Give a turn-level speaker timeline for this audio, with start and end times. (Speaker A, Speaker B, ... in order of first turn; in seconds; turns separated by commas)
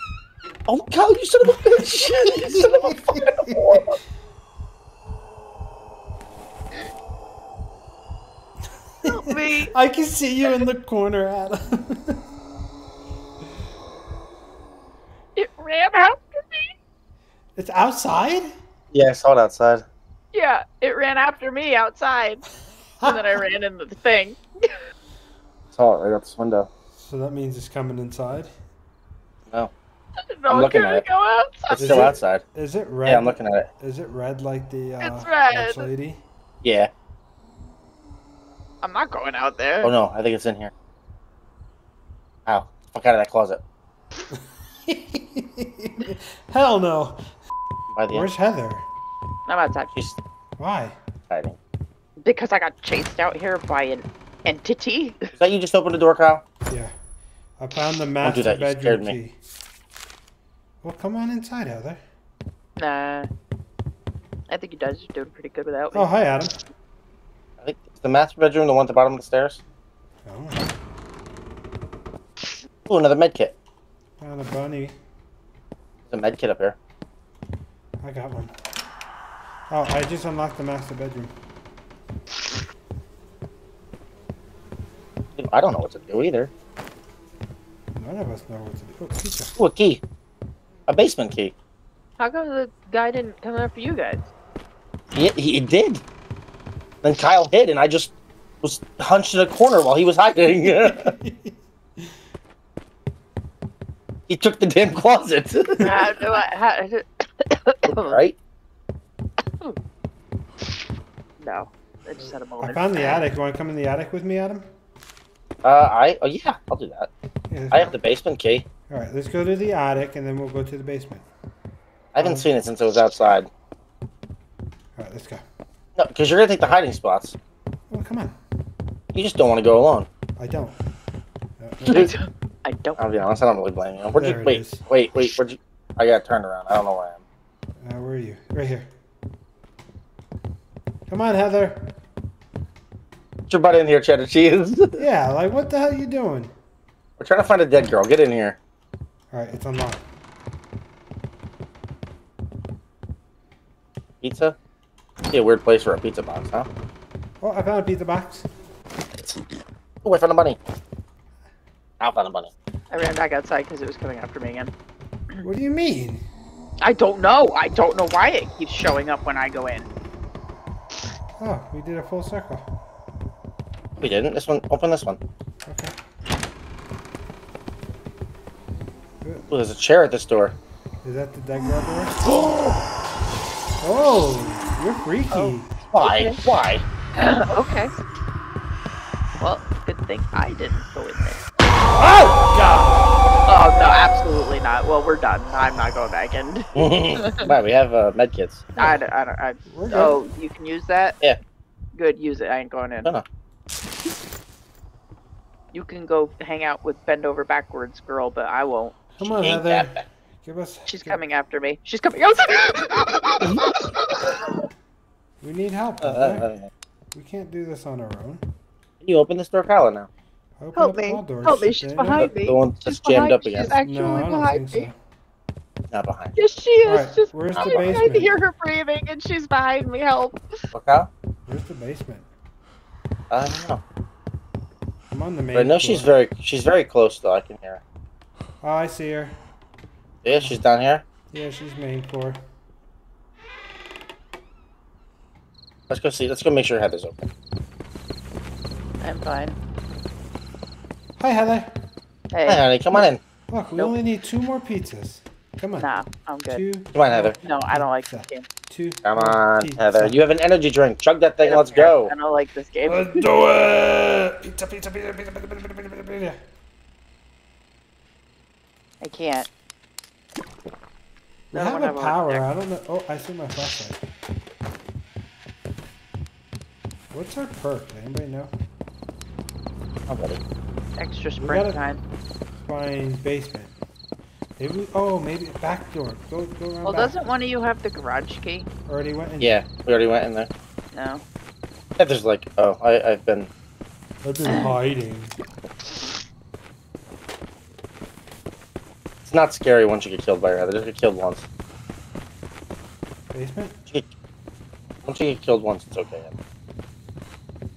Speaker A: 0.7-4.0, Speaker B: 1.7-3.9, Speaker B: 9.0-12.2, Speaker C: 9.1-9.7, Speaker C: 15.3-16.7, Speaker B: 17.6-18.5, Speaker A: 18.9-19.9, Speaker C: 20.3-22.4, Speaker B: 23.0-23.4, Speaker C: 23.1-24.7, Speaker A: 25.7-26.7, Speaker B: 26.9-28.5, Speaker C: 30.4-32.1, Speaker A: 30.5-31.1, Speaker A: 31.7-32.4, Speaker B: 31.8-36.2, Speaker A: 33.0-33.7, Speaker C: 35.0-35.9, Speaker A: 36.6-36.9, Speaker C: 38.8-39.9, Speaker A: 39.8-40.7, Speaker A: 42.5-43.6, Speaker B: 44.4-47.2, Speaker A: 47.9-48.3, Speaker B: 48.1-48.9, Speaker C: 49.5-49.9, Speaker B: 50.6-51.0, Speaker A: 51.3-51.6, Speaker C: 52.2-55.3, Speaker A: 55.3-56.4, Speaker B: 56.7-56.9, Speaker B: 57.6-59.4, Speaker A: 58.2-59.1, Speaker B: 60.8-62.0, Speaker C: 62.8-63.3, Speaker C: 64.5-66.1, Speaker B: 65.9-66.6, Speaker A: 67.6-69.6, Speaker B: 70.2-70.7, Speaker A: 72.9-73.5, Speaker B: 74.2-75.0, Speaker A: 76.1-76.8, Speaker B: 78.0-78.5, Speaker B: 79.7-81.3, Speaker A: 85.4-86.5, Speaker B: 88.0-89.5, Speaker A: 89.6-90.0, Speaker A: 90.9-91.5, Speaker C: 92.2-94.3, Speaker A: 95.1-96.0, Speaker A: 97.0-101.2, Speaker B: 100.7-102.1, Speaker A: 104.3-105.9, Speaker C: 105.8-108.2, Speaker A: 107.9-108.4, Speaker C: 111.4-113.2, Speaker B: 112.6-114.7, Speaker A: 115.6-117.1, Speaker B: 117.5-118.0, Speaker A: 117.7-118.7, Speaker B: 118.9-121.3, Speaker A: 122.1-123.5, Speaker B: 122.2-122.5, Speaker B: 125.0-125.4, Speaker A: 126.0-127.4, Speaker B: 127.9-128.4, Speaker A: 129.1-130.1, Speaker B: 130.4-130.8, Speaker B: 131.6-132.2, Speaker C: 131.8-133.2, Speaker A: 133.0-137.2, Speaker B: 134.2-134.8, Speaker B: 137.8-138.9, Speaker B: 141.1-141.9, Speaker A: 143.5-145.0, Speaker B: 145.0-146.5, Speaker A: 147.2-148.6, Speaker B: 149.3-150.0, Speaker A: 154.2-154.6, Speaker A: 155.3-156.7, Speaker B: 157.4-158.5, Speaker A: 160.0-160.6, Speaker A: 162.0-162.5, Speaker C: 162.9-164.7, Speaker B: 165.4-166.2, Speaker C: 166.8-169.9, Speaker B: 171.4-172.7, Speaker A: 174.0-175.2, Speaker B: 175.7-175.9, Speaker B: 179.2-179.5, Speaker A: 179.5-180.6, Speaker B: 181.0-182.2, Speaker B: 183.8-185.7, Speaker C: 185.3-186.4, Speaker A: 185.9-186.8, Speaker C: 187.2-187.9, Speaker C: 189.4-191.4, Speaker B: 191.9-193.1, Speaker C: 193.5-197.5, Speaker A: 196.8-198.7, Speaker B: 198.8-199.0, Speaker C: 198.8-201.2, Speaker B: 199.7-200.2, Speaker C: 201.9-203.1, Speaker C: 205.7-209.0, Speaker B: 209.2-211.2, Speaker A: 209.2-210.0, Speaker C: 210.9-214.6, Speaker B: 215.4-216.5, Speaker A: 216.0-216.7, Speaker B: 217.1-218.4, Speaker A: 219.0-220.1, Speaker B: 220.6-222.3, Speaker C: 220.8-224.9, Speaker A: 222.2-223.8, Speaker B: 223.8-225.0, Speaker A: 225.9-226.4, Speaker C: 226.4-230.4, Speaker B: 226.8-228.3, Speaker A: 227.5-228.0, Speaker A: 230.7-231.1, Speaker B: 231.5-232.3, Speaker A: 233.3-233.8, Speaker B: 235.1-236.1, Speaker A: 235.6-237.8, Speaker B: 238.6-239.4, Speaker A: 240.2-241.0, Speaker B: 241.3-242.4, Speaker A: 245.9-247.3, Speaker C: 249.0-249.6, Speaker B: 251.2-251.8, Speaker C: 252.3-253.1, Speaker A: 252.5-253.2, Speaker B: 253.5-255.9, Speaker C: 255.8-256.6, Speaker B: 256.5-260.2, Speaker A: 256.9-257.4, Speaker C: 257.4-258.5, Speaker A: 259.0-262.1, Speaker C: 261.4-263.4, Speaker B: 262.9-266.4, Speaker C: 269.0-269.5, Speaker B: 271.5-274.0, Speaker C: 271.5-272.4, Speaker B: 277.1-278.5, Speaker A: 280.1-280.4, Speaker C: 281.0-282.0, Speaker B: 281.4-281.8, Speaker B: 282.6-283.7, Speaker B: 284.6-287.1, Speaker C: 286.9-288.7, Speaker B: 288.9-289.6, Speaker A: 289.4-290.5, Speaker C: 290.9-291.2, Speaker A: 292.0-293.5, Speaker B: 294.2-295.4, Speaker A: 299.2-301.5, Speaker B: 303.3-303.8, Speaker A: 305.0-306.3